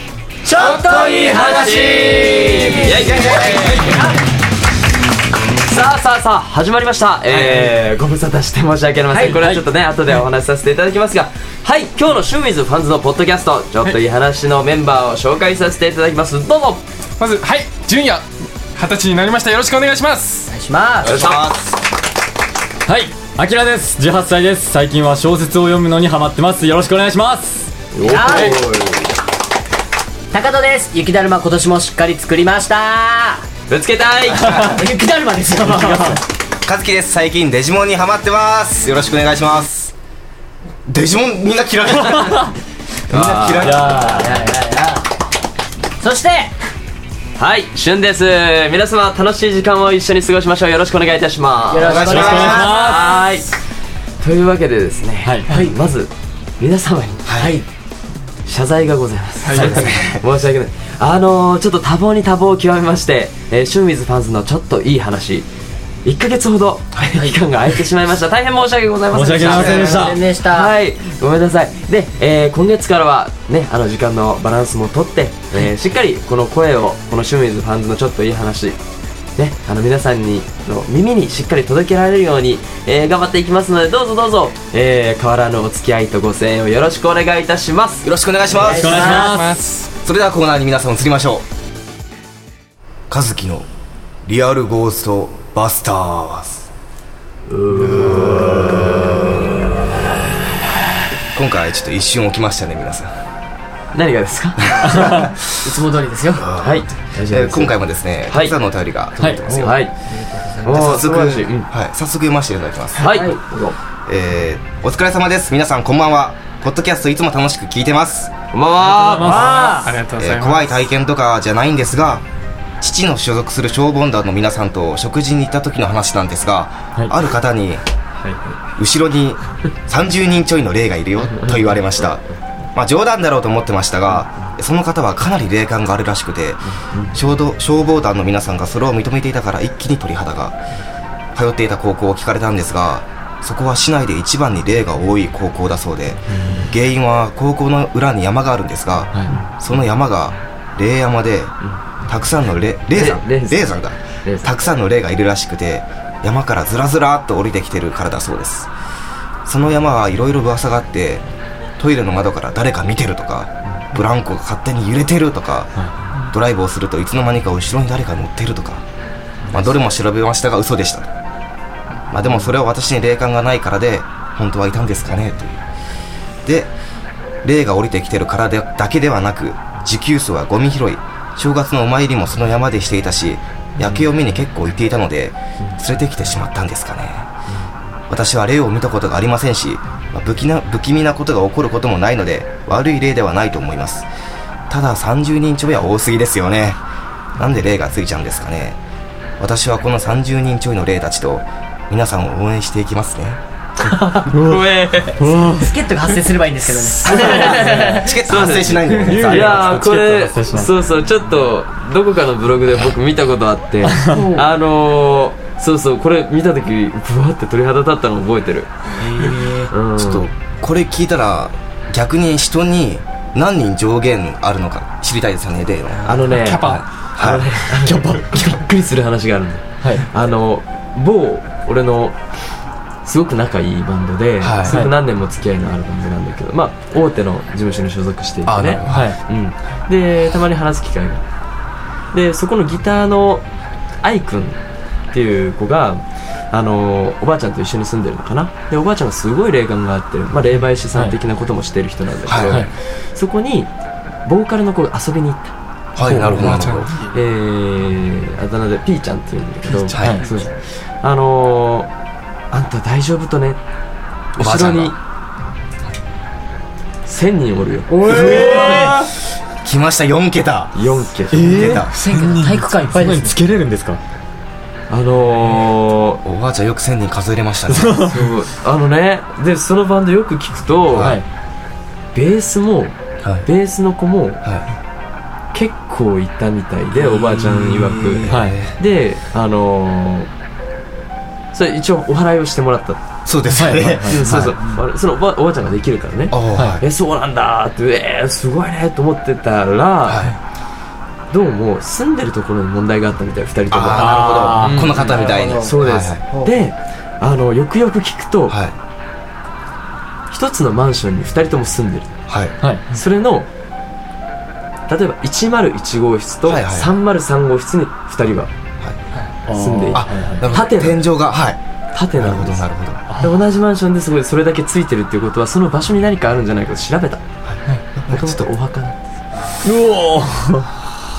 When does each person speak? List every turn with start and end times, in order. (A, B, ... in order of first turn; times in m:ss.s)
0:00.4-0:04.1 A
0:00.6-0:03.7 B
0:01.0-0:01.7 C
0:02.7-0:04.0 C
0:05.6-0:16.8 C
0:09.2-0:09.6 D
0:17.2-0:20.5 E
0:20.5-0:21.2 A
0:21.0-0:21.8 B
0:21.0-0:21.4 C
0:22.8-0:27.7 D
0:27.9-0:29.1 C
0:28.0-0:28.6 A
0:28.2-0:28.5 E
0:30.3-0:33.4 A
0:33.7-0:34.8 C
0:34.6-0:36.2 A
0:35.6-0:36.2 D
0:36.6-0:39.9 B
0:40.8-0:42.5 B
0:43.1-0:44.2 B
0:43.1-0:44.2 C
0:43.6-0:44.4 D
0:43.7-0:45.1 A
0:46.0-0:46.5 A
0:47.4-0:53.5 C
0:51.7-0:52.7 A
0:51.8-0:52.8 B
0:52.1-0:53.1 D
0:54.2-0:57.2 C
0:55.2-0:55.5 D
0:55.5-0:55.7 A
0:57.2-0:57.5 B
0:57.4-0:57.6 A
0:58.4-1:05.5 C
0:59.5-1:00.2 B
1:06.0-1:18.8 C
1:09.1-1:10.2 D
1:09.4-1:10.7 A
1:19.4-1:28.1 C
1:28.0-1:29.2 B
1:28.6-1:29.3 A
1:28.6-1:29.5 D
1:29.0-1:29.9 E
1:30.0-1:31.4 B
1:33.1-1:33.7 B
1:34.2-1:36.6 B
1:37.5-1:39.4 C
1:41.3-1:43.1 B
1:43.9-1:45.2 C
1:44.8-1:45.3 B
1:44.8-1:46.5 A
1:46.4-1:49.8 B
1:46.6-1:48.6 C
1:49.5-1:49.9 C
1:50.1-1:50.8 A
1:50.6-1:53.1 B
1:50.6-1:51.7 C
1:53.0-1:53.4 C
1:53.0-1:53.8 A
1:54.0-1:58.3 B
1:58.5-1:59.9 C
1:58.9-2:00.8 E
1:59.0-1:59.8 D
1:59.4-1:59.9 A
2:00.2-2:02.2 B
2:02.8-2:07.8 B
2:08.2-2:08.6 C
2:08.8-2:20.6 B
2:11.2-2:12.0 C
2:16.7-2:17.2 C
2:21.3-2:31.5 B
2:26.3-2:26.7 C
2:29.3-2:29.6 C
2:32.1-2:38.7 B
2:32.9-2:34.6 C
2:39.4-2:41.2 B
2:41.8-2:48.8 B
2:49.5-2:51.1 B
2:52.1-2:55.6 B
2:56.4-2:56.7 B
2:57.4-3:07.3 B
3:08.1-3:14.1 B
3:14.7-3:16.8 B
3:17.4-3:18.8 B
3:19.4-3:23.4 B
3:23.8-3:25.4 C
3:24.3-3:24.6 D
3:25.2-3:25.7 D
3:25.6-3:28.1 A
3:27.0-3:38.7 C
3:27.4-3:29.8 B
3:29.0-3:30.7 D
3:33.9-3:34.2 D
3:34.1-3:34.4 A
3:39.0-3:39.7 A
3:39.7-3:40.3 C
3:40.0-3:47.5 B
3:46.0-3:52.2 C
3:46.3-3:46.8 E
3:47.9-3:48.1 D
3:53.0-4:01.2 C
3:54.4-3:54.8 B
3:58.4-3:59.1 B
3:58.9-3:59.2 D
4:02.1-4:03.4 C
4:04.0-4:04.6 C
4:05.1-4:13.7 C
4:12.3-4:12.7 B
4:14.2-4:15.6 C
4:16.0-4:16.9 B
4:16.0-4:17.1 E
4:16.1-4:21.9 C
4:19.9-4:20.2 B
4:19.9-4:20.2 D
4:22.5-4:23.6 C
4:24.4-4:25.0 C
4:24.4-4:24.9 B
4:27.0-4:28.9 C
4:27.9-4:29.0 A
4:28.1-4:29.0 B
4:28.2-4:29.1 E
4:29.6-4:30.8 B
4:30.7-4:31.6 C
4:31.3-4:31.8 D
4:31.4-4:31.9 B
4:31.6-4:33.1 E
4:31.9-4:33.4 A
4:32.9-4:34.0 D
4:34.9-4:36.2 C
4:36.2-4:38.0 B
4:37.7-4:38.1 D
4:38.0-4:41.1 C
4:40.9-4:41.2 B
4:41.0-4:41.2 D
4:42.1-4:44.4 C
4:43.2-4:43.5 B
4:45.5-4:50.3 C
4:46.9-4:48.8 B
4:48.3-4:48.6 D
4:51.5-4:53.0 C
4:53.2-4:54.5 B
4:53.5-4:54.5 D
4:54.1-5:00.3 C
4:56.3-4:56.8 B
5:00.0-5:00.4 B
5:01.3-5:08.6 C
5:03.7-5:06.2 B
5:03.9-5:04.8 D
5:05.0-5:05.8 A
5:06.3-5:06.5 A
5:08.5-5:08.8 B
5:10.3-5:12.1 C
5:12.3-5:12.6 B
5:12.6-5:12.8 D
5:12.9-5:13.5 C
5:14.9-5:18.5 C
5:16.4-5:16.9 B
5:19.5-5:20.4 D
5:19.5-5:21.0 C
5:19.9-5:21.6 B
5:21.9-5:22.6 C
5:22.2-5:23.0 B
5:23.2-5:27.2 C
5:27.4-5:28.5 B
5:28.1-5:29.0 C
5:29.6-5:30.9 D